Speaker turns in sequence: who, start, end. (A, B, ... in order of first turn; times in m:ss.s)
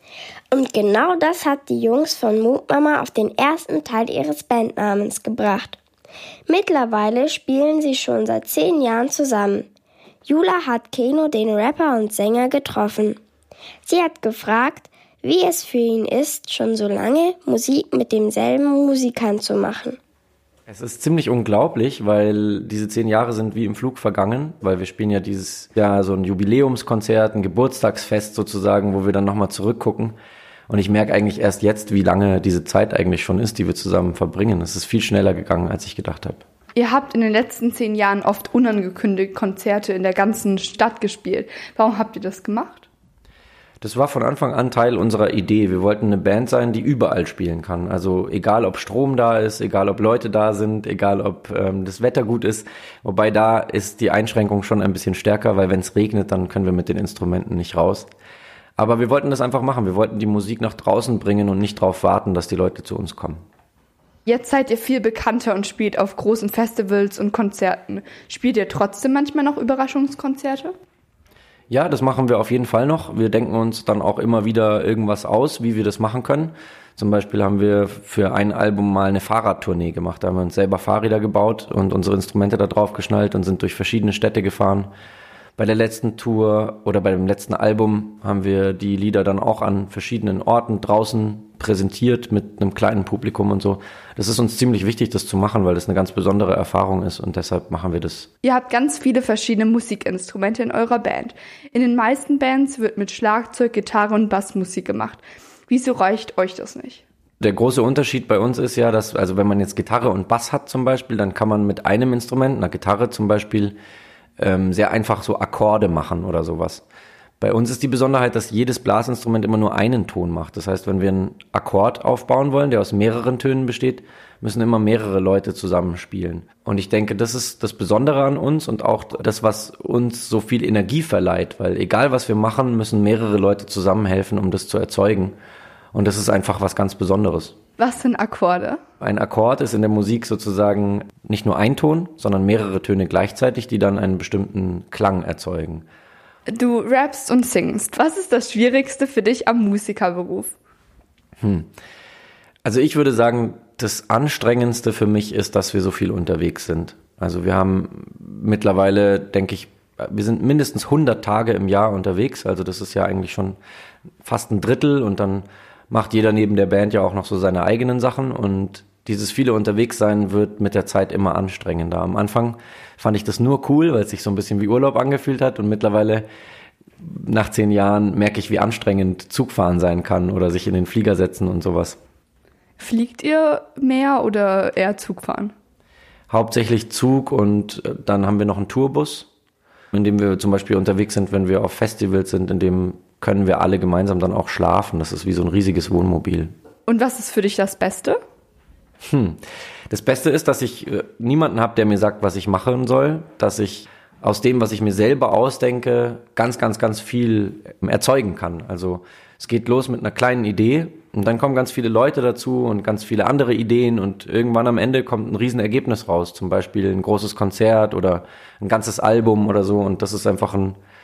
0:00.5-0:05.8 A
0:06.5-0:09.7 A
0:10.2-0:13.2 A
0:13.8-0:20.0 A
0:20.7-0:30.2 B
0:30.7-0:36.4 B
0:36.8-0:42.9 C
0:43.8-0:58.1 B
0:58.8-1:03.4 B
1:04.2-1:10.7 C
1:11.7-1:24.9 B
1:25.6-1:38.3 B
1:38.4-1:47.0 C
1:47.4-1:53.8 B
1:54.4-1:56.8 B
1:57.4-2:15.4 B
2:15.9-2:17.6 B
2:17.8-2:18.8 C
2:19.0-2:25.8 B
2:26.5-2:30.5 C
2:31.4-2:31.7 B
2:32.6-2:43.6 B
2:44.2-2:56.3 B
2:57.0-3:02.0 B
3:02.8-3:05.5 C
3:06.3-3:09.3 B
3:09.9-3:16.5 B
3:16.9-3:18.2 C
3:19.0-3:40.8 B